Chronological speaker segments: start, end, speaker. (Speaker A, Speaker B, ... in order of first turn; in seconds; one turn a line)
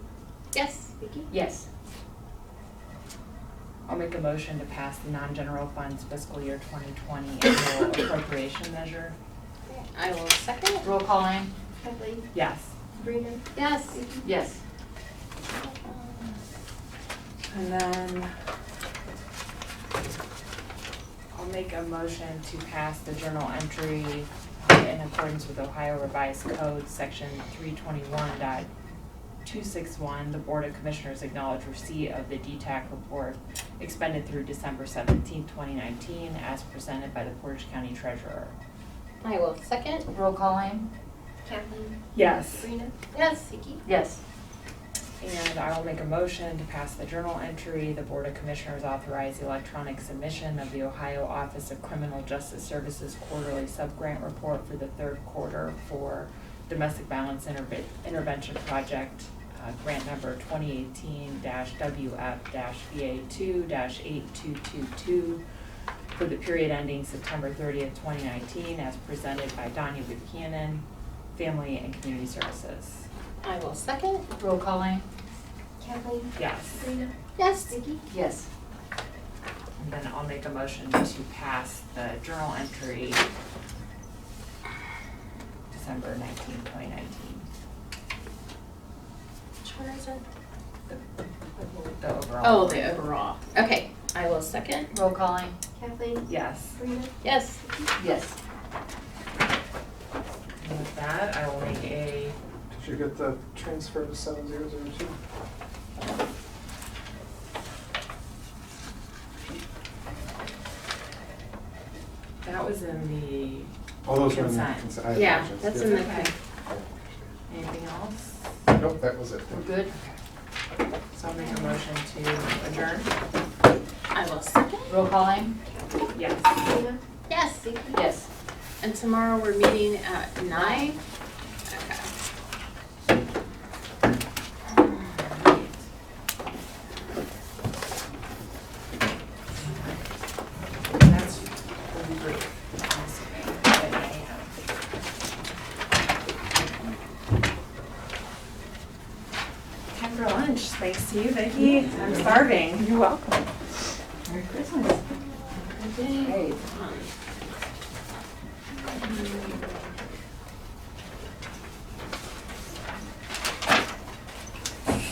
Speaker A: 0.5-1.2
Speaker B: 1.0-1.2
Speaker C: 1.3-1.7
Speaker D: 3.9-9.2
Speaker A: 9.7-10.9
Speaker C: 10.8-11.5
Speaker B: 11.8-12.3
Speaker D: 12.3-12.7
Speaker B: 12.9-14.3
Speaker A: 13.6-14.0
Speaker C: 14.2-14.6
Speaker A: 15.5-16.3
Speaker D: 17.5-18.3
Speaker D: 21.3-28.7
Speaker D: 29.4-38.5
Speaker A: 39.2-40.1
Speaker C: 40.1-40.9
Speaker B: 41.5-42.0
Speaker D: 42.1-42.7
Speaker B: 42.5-43.0
Speaker A: 43.1-43.8
Speaker C: 43.9-44.2
Speaker D: 45.2-65.4
Speaker D: 66.1-73.1
Speaker A: 73.4-74.3
Speaker C: 74.4-75.1
Speaker B: 75.8-77.1
Speaker D: 76.4-76.9
Speaker A: 77.4-77.8
Speaker B: 77.7-78.0
Speaker C: 78.1-78.5
Speaker D: 79.8-83.3
Speaker D: 85.7-87.5
Speaker A: 89.6-90.2
Speaker D: 92.0-93.0
Speaker A: 92.4-94.9
Speaker C: 94.9-95.6
Speaker B: 95.8-97.2
Speaker D: 96.3-96.8
Speaker A: 97.2-97.6
Speaker C: 98.0-98.4
Speaker D: 100.6-102.4
Speaker E: 102.7-105.1
Speaker D: 112.4-114.9
Speaker E: 114.1-115.9
Speaker A: 115.1-116.3
Speaker D: 115.7-116.3
Speaker D: 117.5-118.4
Speaker E: 118.9-119.5
Speaker C: 119.5-119.9
Speaker D: 119.9-120.2
Speaker D: 121.1-123.1
Speaker A: 124.1-125.0
Speaker C: 124.9-125.5
Speaker D: 126.1-126.6
Speaker B: 126.6-127.0
Speaker A: 127.3-128.0
Speaker C: 127.9-128.3
Speaker A: 128.8-131.0
Speaker A: 131.7-132.1
Speaker D: 135.1-135.5
Speaker D: 139.7-139.9
Speaker D: 140.9-144.5
Speaker D: 149.9-153.5
Speaker C: 154.3-154.9
Speaker A: 155.6-157.1
Speaker C: 156.2-156.6
Speaker A: 159.0-159.6